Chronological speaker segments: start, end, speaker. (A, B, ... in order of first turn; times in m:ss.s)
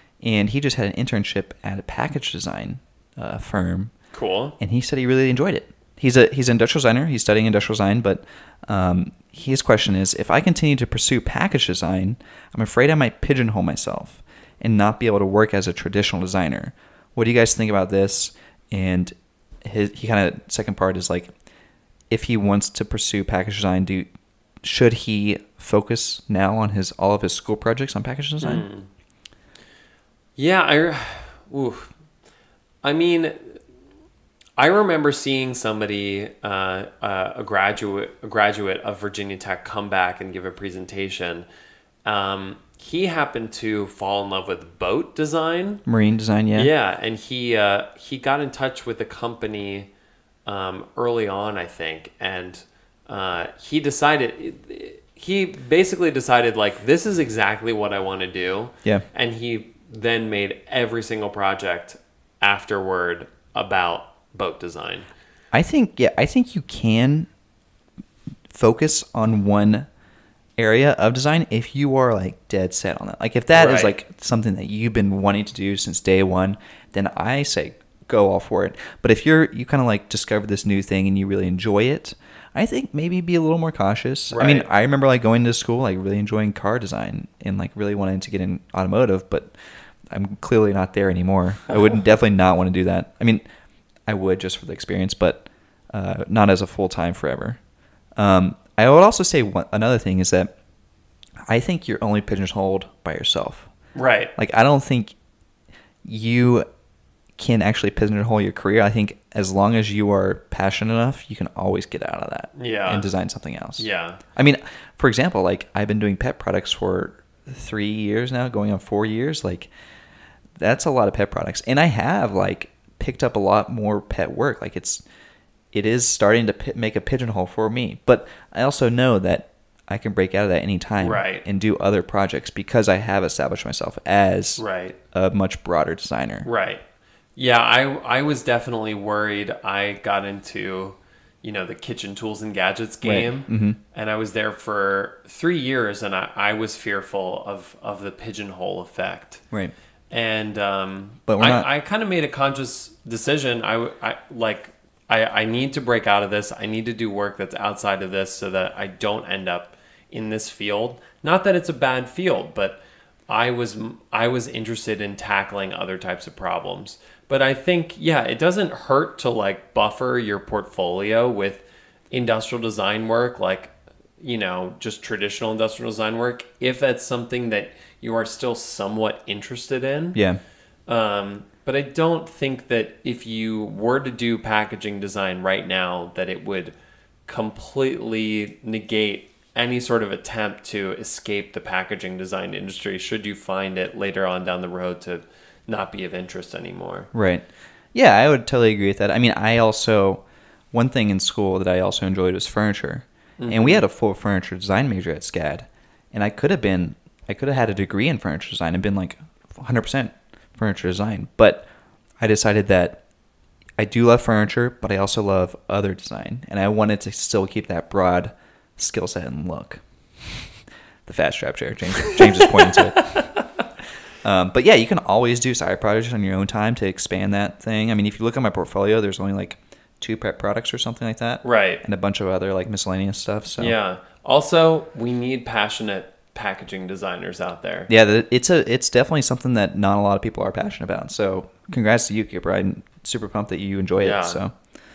0:00.2-0:03.9 A
0:04.1-0:04.6 B
0:04.6-0:21.3 A
0:22.1-0:24.1 A
0:24.6-0:28.6 A
0:28.4-0:28.9 B
0:30.4-0:31.9 B
0:32.8-0:33.6 B
0:34.6-0:41.5 B
0:42.0-0:45.8 B
0:45.9-0:46.7 A
0:46.6-0:49.9 B
0:50.5-1:05.1 B
1:05.5-1:07.3 A
1:08.5-1:09.9 A
1:10.6-1:29.6 A
1:13.5-1:13.9 B
1:24.3-1:24.7 B
1:30.1-1:33.4 A
1:34.1-1:37.6 A
1:38.2-1:40.6 A
1:41.5-1:43.7 A
1:44.0-1:44.3 B
1:44.4-1:45.2 A
1:46.0-1:46.7 A
1:47.4-1:53.8 A
1:52.6-1:53.1 B
1:53.8-1:54.2 B
1:54.4-1:59.7 A
2:00.6-2:05.0 A
2:05.7-2:16.5 A
2:11.0-2:11.4 B
2:14.6-2:15.0 B
2:16.4-2:16.8 B
2:17.4-2:29.4 B
2:23.0-2:23.8 A
2:30.1-3:00.2 B
2:31.3-2:31.7 A
3:00.2-3:00.4 A
3:00.9-3:06.8 B
3:07.3-3:17.1 B
3:17.1-3:31.7 A
3:23.4-3:23.8 B
3:32.2-3:33.0 A
3:33.8-3:39.8 A
3:41.1-3:43.2 A
3:42.1-3:43.4 B
3:44.2-3:53.8 A
3:51.4-3:51.8 B
3:53.6-3:57.9 B
3:57.9-4:04.6 A
4:04.0-4:04.4 B